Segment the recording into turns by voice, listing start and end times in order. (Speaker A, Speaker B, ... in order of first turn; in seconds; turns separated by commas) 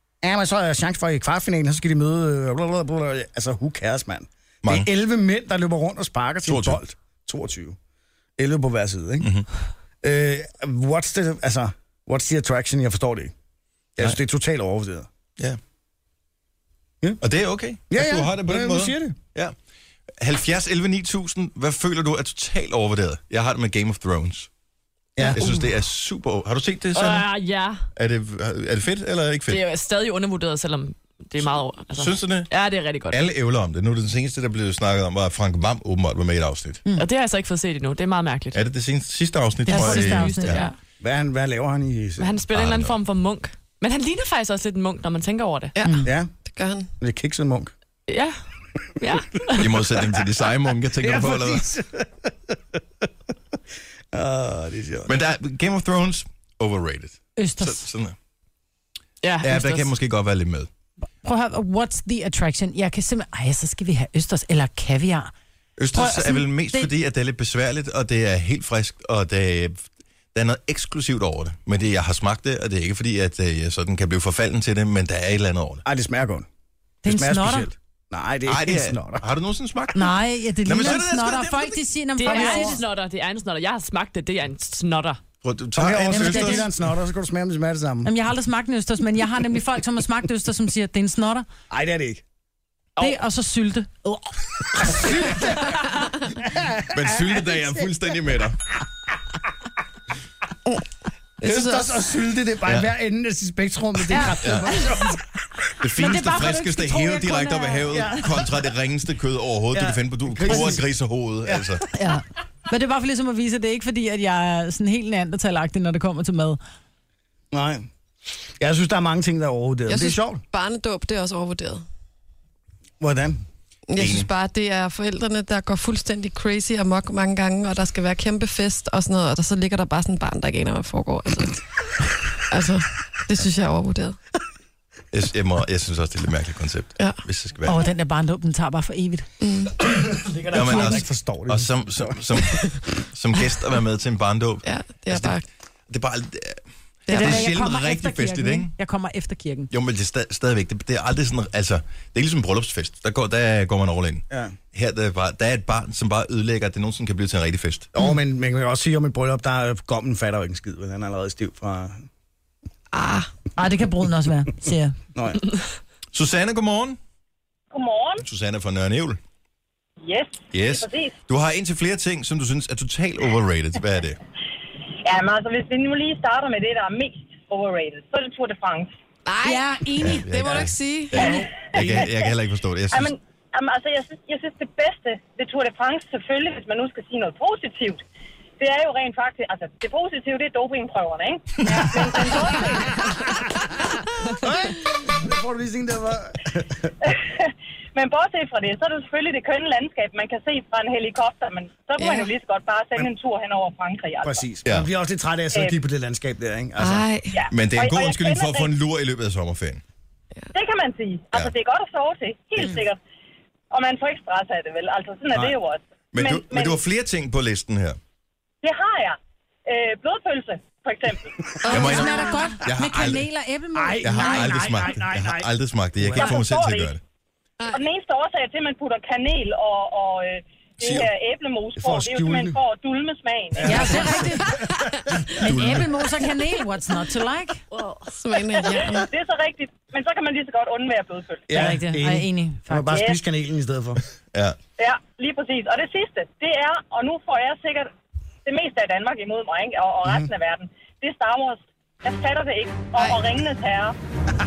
Speaker A: 0.2-7.8, Speaker B: 6.5-6.8, Speaker A: 8.4-9.3, Speaker B: 9.2-9.5, Speaker A: 10.0-13.3, Speaker A: 14.0-15.1, Speaker B: 17.2-19.6, Speaker A: 17.9-19.2, Speaker B: 20.2-24.5, Speaker A: 25.2-25.4, Speaker B: 25.3-27.3, Speaker C: 26.9-27.9, Speaker B: 28.0-29.6, Speaker C: 29.5-33.2, Speaker B: 31.4-32.5, Speaker B: 33.1-36.8, Speaker C: 37.0-38.6, Speaker B: 38.5-40.6, Speaker D: 39.7-40.7, Speaker C: 39.7-40.7, Speaker A: 41.0-42.4, Speaker C: 42.2-45.7, Speaker B: 42.5-43.0, Speaker E: 45.8-46.9, Speaker A: 46.0-46.3, Speaker A: 47.0-47.7, Speaker C: 48.1-48.4, Speaker C: 49.0-49.7, Speaker B: 49.5-51.6, Speaker A: 51.0-52.8, Speaker A: 54.1-55.1, Speaker B: 55.1-58.1, Speaker D: 57.4-57.9, Speaker C: 59.2-59.9, Speaker B: 59.4-60.7, Speaker D: 61.2-65.3, Speaker B: 65.8-75.8, Speaker D: 65.9-66.9, Speaker A: 75.8-76.5, Speaker D: 77.0-77.7, Speaker A: 77.0-79.2, Speaker B: 78.5-82.6, Speaker D: 79.9-82.8, Speaker C: 82.2-85.2, Speaker B: 85.4-86.7, Speaker A: 85.8-88.1, Speaker D: 86.1-86.7, Speaker D: 88.0-91.5, Speaker A: 91.7-92.2, Speaker D: 93.0-94.2, Speaker A: 94.8-97.9, Speaker B: 96.9-98.6, Speaker E: 101.4-102.0, Speaker A: 101.4-105.4, Speaker D: 104.1-104.5, Speaker B: 104.4-104.8, Speaker B: 105.8-111.8, Speaker D: 106.0-108.3, Speaker A: 107.9-108.4, Speaker A: 109.7-110.8, Speaker A: 111.4-111.8, Speaker D: 111.9-116.6, Speaker A: 117.5-117.9, Speaker A: 118.6-120.4, Speaker E: 119.9-121.8, Speaker A: 123.0-123.4, Speaker E: 123.9-131.6, Speaker B: 124.0-124.3, Speaker E: 132.5-134.2, Speaker B: 135.1-137.8, Speaker D: 137.7-139.3, Speaker E: 139.4-139.8, Speaker A: 140.1-142.2, Speaker B: 140.5-145.4, Speaker D: 140.7-140.9, Speaker E: 144.6-145.4, Speaker B: 145.9-148.7, Speaker E: 147.1-147.5, Speaker D: 147.1-149.7, Speaker B: 149.7-157.9, Speaker A: 154.3-154.6, Speaker A: 157.9-162.1, Speaker E: 162.9-163.3, Speaker D: 163.6-165.0, Speaker A: 165.2-165.4, Speaker B: 166.1-167.0, Speaker F: 167.7-168.2, Speaker B: 168.2-169.2, Speaker F: 170.0-171.2, Speaker B: 170.5-174.2, Speaker F: 175.0-178.9, Speaker E: 179.3-181.4, Speaker D: 179.4-180.3, Speaker B: 180.0-183.1, Speaker F: 181.2-182.3, Speaker F: 182.9-188.0, Speaker F: 188.6-193.3, Speaker A: 194.4-196.9, Speaker F: 197.0-204.5, Speaker E: 202.0-202.3, Speaker A: 204.2-207.1, Speaker F: 205.5-205.8, Speaker E: 206.8-207.3, Speaker F: 207.3-208.8, Speaker B: 207.5-209.8, Speaker F: 210.5-213.0, Speaker F: 213.7-216.8, Speaker B: 216.1-218.0, Speaker F: 218.6-221.9, Speaker E: 221.7-222.6, Speaker B: 221.7-223.3, Speaker D: 221.7-224.7, Speaker A: 223.8-226.4, Speaker B: 224.0-227.0, Speaker F: 226.1-226.9, Speaker F: 227.7-234.1, Speaker B: 230.8-231.1, Speaker A: 231.8-232.6, Speaker A: 233.6-235.0, Speaker D: 233.6-234.6, Speaker B: 235.1-235.9, Speaker D: 235.4-237.6, Speaker C: 237.8-238.0, Speaker E: 238.1-239.1, Speaker F: 238.5-241.7, Speaker A: 241.5-244.0, Speaker D: 241.5-243.0, Speaker F: 242.9-243.2, Speaker F: 244.8-247.9, Speaker F: 248.4-254.0, Speaker A: 250.0-250.3